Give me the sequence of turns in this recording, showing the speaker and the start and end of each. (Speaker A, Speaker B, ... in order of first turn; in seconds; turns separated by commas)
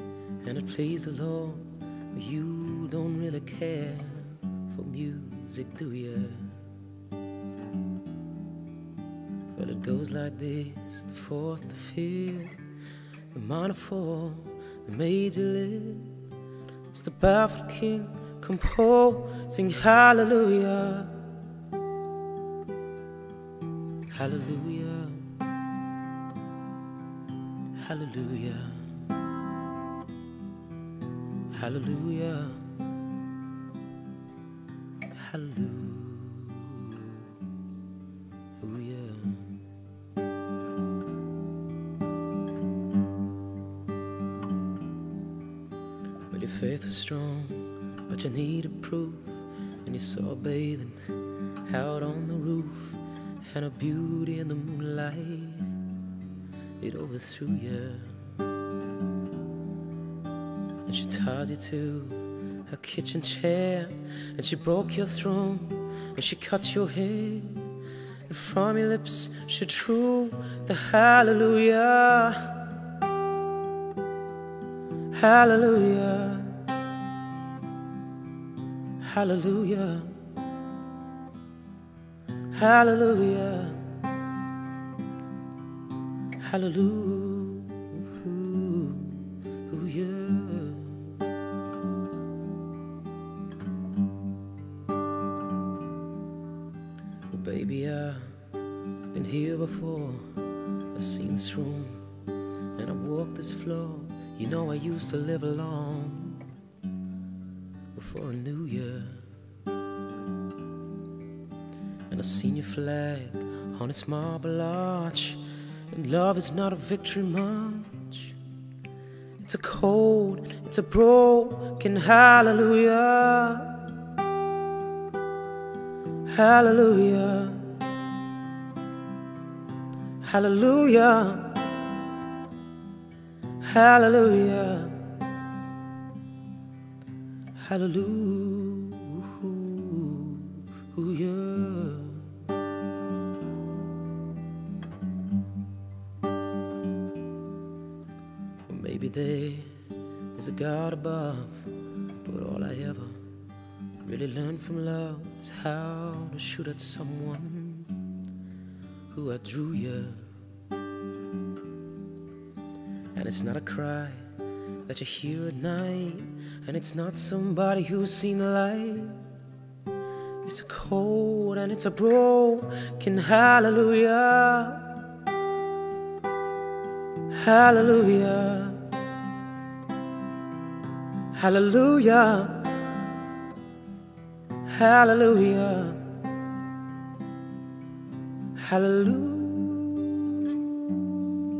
Speaker A: 0.4-6.7, Speaker A: 9.5-12.6, Speaker A: 13.3-16.2, Speaker A: 16.9-21.2, Speaker A: 24.1-25.3, Speaker A: 27.7-29.0, Speaker A: 31.5-32.8, Speaker A: 35.1-37.3, Speaker A: 38.6-39.7, Speaker A: 46.3-55.8, Speaker A: 56.8-58.3, Speaker A: 60.9-72.7, Speaker A: 75.1-76.7, Speaker A: 79.0-80.2, Speaker A: 82.5-83.9, Speaker A: 86.4-91.2, Speaker A: 97.3-98.4, Speaker A: 99.1-100.4, Speaker A: 100.9-102.1, Speaker A: 102.7-106.5, Speaker A: 107.9-109.3, Speaker A: 112.1-118.4, Speaker A: 119.4-123.9, Speaker A: 126.2-127.8, Speaker A: 130.2-131.8, Speaker A: 133.6-135.1, Speaker A: 137.6-142.5, Speaker A: 148.7-149.8, Speaker A: 150.3-153.2, Speaker A: 154.0-158.0, Speaker A: 159.1-160.3, Speaker A: 163.1-164.3, Speaker A: 164.8-169.2, Speaker A: 170.4-174.9, Speaker A: 177.3-178.9, Speaker A: 181.3-182.9, Speaker A: 184.6-186.1, Speaker A: 188.6-190.2